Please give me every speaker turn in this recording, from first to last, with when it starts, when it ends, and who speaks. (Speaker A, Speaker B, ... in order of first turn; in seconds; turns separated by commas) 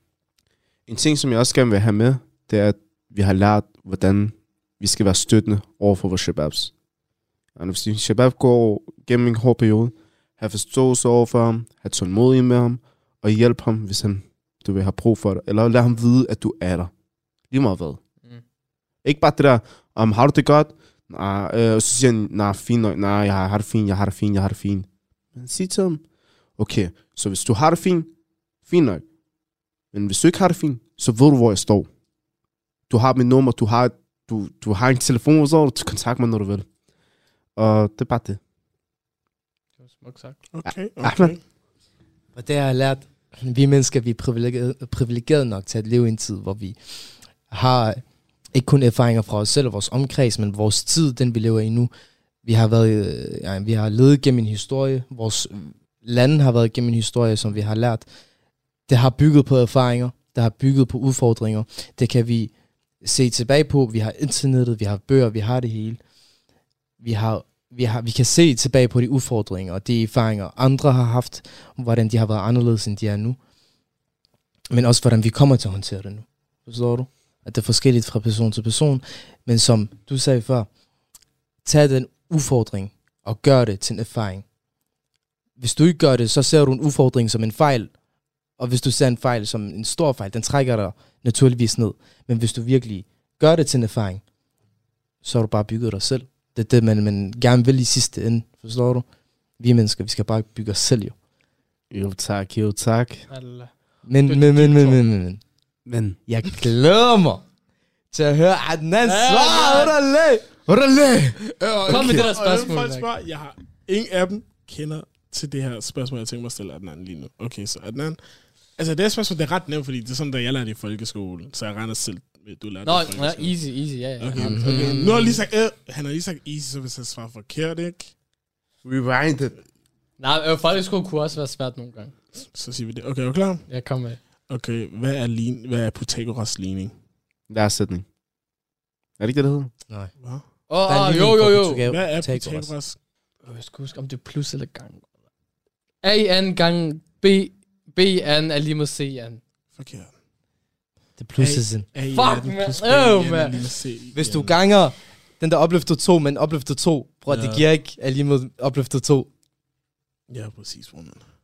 Speaker A: 0.9-6.7, Speaker A: 7.5-16.9, Speaker A: 17.5-18.0, Speaker A: 19.0-26.0, Speaker A: 26.6-28.1, Speaker A: 28.6-29.0, Speaker A: 29.9-31.9, Speaker A: 32.9-36.7, Speaker A: 37.5-38.4, Speaker B: 39.8-40.4, Speaker C: 40.5-41.4, Speaker A: 40.6-41.3, Speaker D: 42.3-51.9, Speaker D: 52.4-58.1, Speaker D: 58.9-66.0, Speaker D: 67.0-73.4, Speaker D: 74.7-80.7, Speaker D: 81.6-84.4, Speaker D: 85.6-87.9, Speaker D: 88.6-94.2, Speaker D: 95.2-99.1, Speaker D: 99.6-101.2, Speaker A: 101.9-103.3, Speaker B: 103.3-105.0, Speaker D: 104.1-105.4, Speaker A: 105.8-106.2, Speaker D: 106.3-107.4, Speaker D: 108.1-110.7, Speaker B: 109.0-109.9, Speaker A: 110.7-112.2, Speaker C: 111.6-118.2, Speaker B: 111.9-113.1, Speaker C: 118.7-128.1, Speaker B: 122.8-125.4, Speaker D: 124.4-125.2, Speaker A: 128.8-129.6, Speaker B: 130.2-132.1, Speaker C: 132.3-136.9, Speaker B: 133.7-134.2, Speaker A: 137.5-138.1, Speaker A: 139.2-139.7, Speaker B: 140.7-141.8, Speaker D: 140.8-142.7, Speaker C: 141.9-143.0, Speaker B: 143.4-145.1, Speaker B: 146.0-149.4, Speaker C: 149.8-150.1, Speaker D: 151.2-151.9, Speaker C: 151.4-154.6, Speaker B: 152.1-153.5, Speaker D: 154.1-159.3, Speaker C: 157.3-157.6, Speaker C: 160.3-161.2